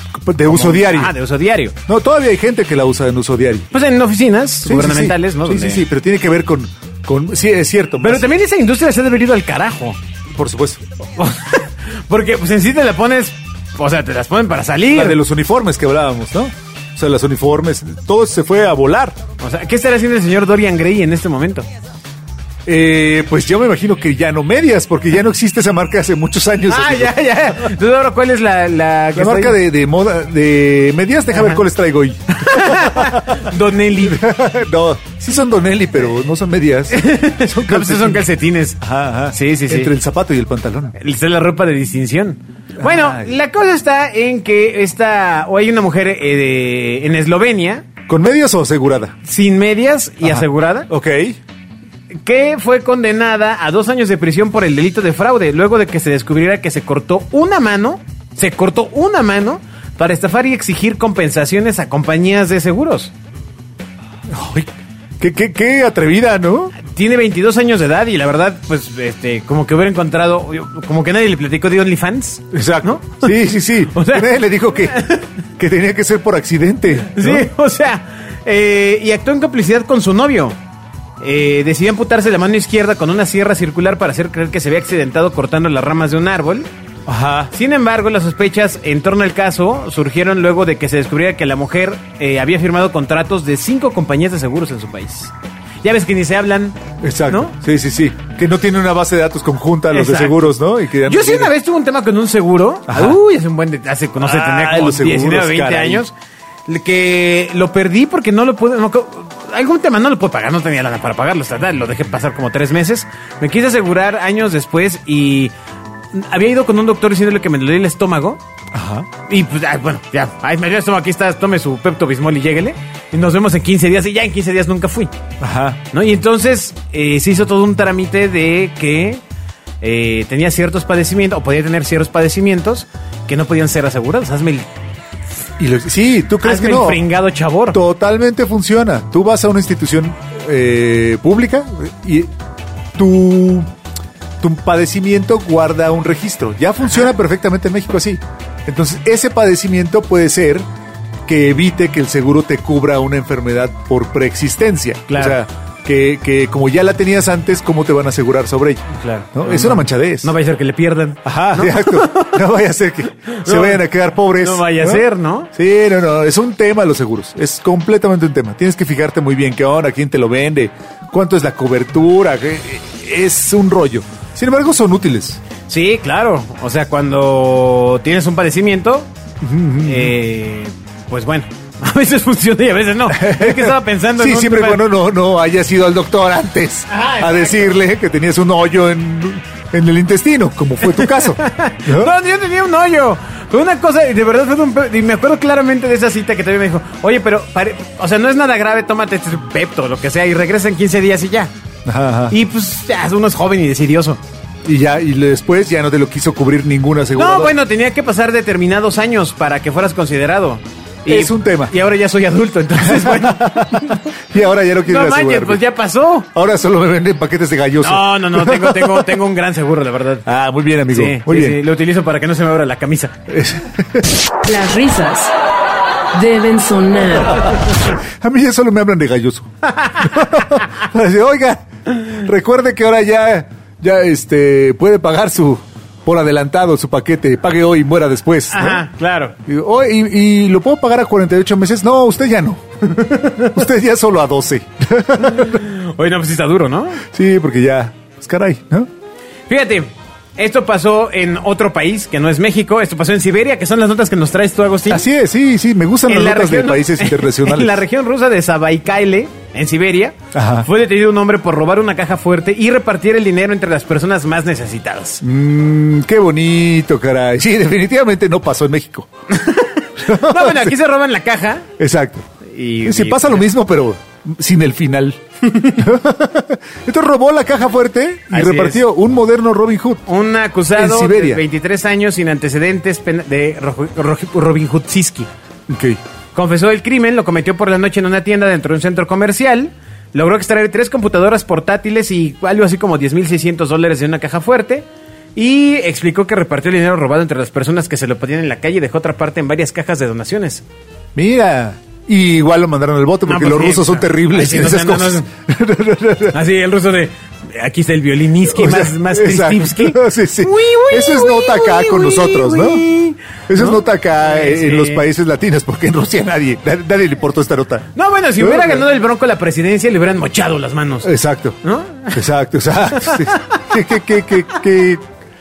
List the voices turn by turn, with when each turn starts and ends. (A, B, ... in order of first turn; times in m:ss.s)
0:00.2-0:01.1 A
0:00.4-0:01.7 B
0:01.9-0:03.7 A
0:03.7-0:05.8 B
0:04.6-0:08.3 A
0:08.0-0:10.0 B
0:10.3-0:10.8 A
0:11.2-0:15.2 B
0:14.9-0:19.2 A
0:19.4-0:21.7 B
0:22.6-0:27.7 A
0:26.7-0:29.6 B
0:29.1-0:33.4 A
0:31.3-0:31.6 B
0:32.3-0:34.2 B
0:34.0-0:38.2 A
0:36.9-0:39.9 B
0:38.8-0:41.0 A
0:41.0-0:47.9 B
0:42.8-0:43.3 A
0:48.1-0:49.1 A
0:49.2-0:50.9 B
0:50.2-0:51.4 A
0:52.2-1:03.1 B
1:04.3-1:04.7 A
1:05.2-1:06.7 A
1:06.8-1:13.4 B
1:12.5-1:17.5 A
1:13.9-1:15.2 B
1:17.1-1:20.6 B
1:21.2-1:26.7 B
1:27.1-1:27.5 A
1:27.5-1:35.3 B
1:35.8-1:36.8 B
1:37.0-1:41.5 A
1:37.3-1:37.5 B
1:39.9-1:40.5 B
1:41.0-1:46.1 B
1:42.9-1:43.2 A
1:44.2-1:46.0 A
1:46.7-1:55.5 B
1:56.1-1:58.4 B
1:58.7-1:59.1 A
1:59.3-2:05.1 B
2:05.4-2:05.8 A
2:05.9-2:09.2 B
2:09.8-2:14.7 B
2:15.6-2:17.0 A
2:16.4-2:17.8 B
2:17.7-2:22.3 A
2:22.9-2:23.7 A
2:24.4-2:30.6 A
2:31.2-2:40.3 A
2:35.1-2:35.4 B
2:38.9-2:42.4 B
2:41.2-2:55.4 A
2:43.3-2:43.8 B
2:44.4-2:45.5 B
2:55.7-2:59.1 B
2:59.4-3:00.1 A
2:59.8-3:04.8 B
3:03.1-3:12.1 A
3:06.9-3:07.7 B
3:10.9-3:21.5 B
3:21.8-3:22.4 A
3:22.3-3:24.2 B
3:24.6-3:27.5 A
3:27.1-3:34.0 B
3:31.1-3:31.7 A
3:32.8-3:35.6 A
3:34.8-3:36.3 B
3:36.3-3:39.1 A
3:37.8-3:40.2 B
3:40.2-3:41.6 A
3:40.9-3:43.2 B
3:43.3-3:44.2 A
3:44.4-3:45.3 C
3:46.1-3:47.5 C
3:48.0-3:49.5 A
3:49.7-3:50.2 B
3:50.0-3:58.8 A
3:58.5-3:59.3 B
3:59.4-4:05.6 A
4:03.0-4:03.5 B
4:05.3-4:07.0 B
4:07.1-4:08.9 A
4:09.5-4:15.0 B
4:14.9-4:17.8 A
4:16.1-4:25.2 B
4:20.3-4:20.7 A
4:25.2-4:29.1 A
4:29.3-4:31.6 B
4:30.0-4:30.7 A
4:31.8-4:32.2 A
4:32.4-4:33.5 B
4:32.8-4:40.0 A
4:35.5-4:35.8 B
4:38.3-4:38.8 B
4:40.1-4:45.3 B
4:40.7-4:41.4 A
4:45.7-4:46.0 A
4:46.3-5:00.6 B
5:01.1-5:06.4 A
5:03.2-5:05.2 B
5:06.3-5:15.0 B
5:08.4-5:12.8 A
5:13.5-5:17.9 A
5:17.9-5:21.1 B
5:18.4-5:18.8 A
5:21.0-5:21.6 A
5:21.6-5:22.2 B
5:22.1-5:25.0 A
5:22.9-5:23.6 B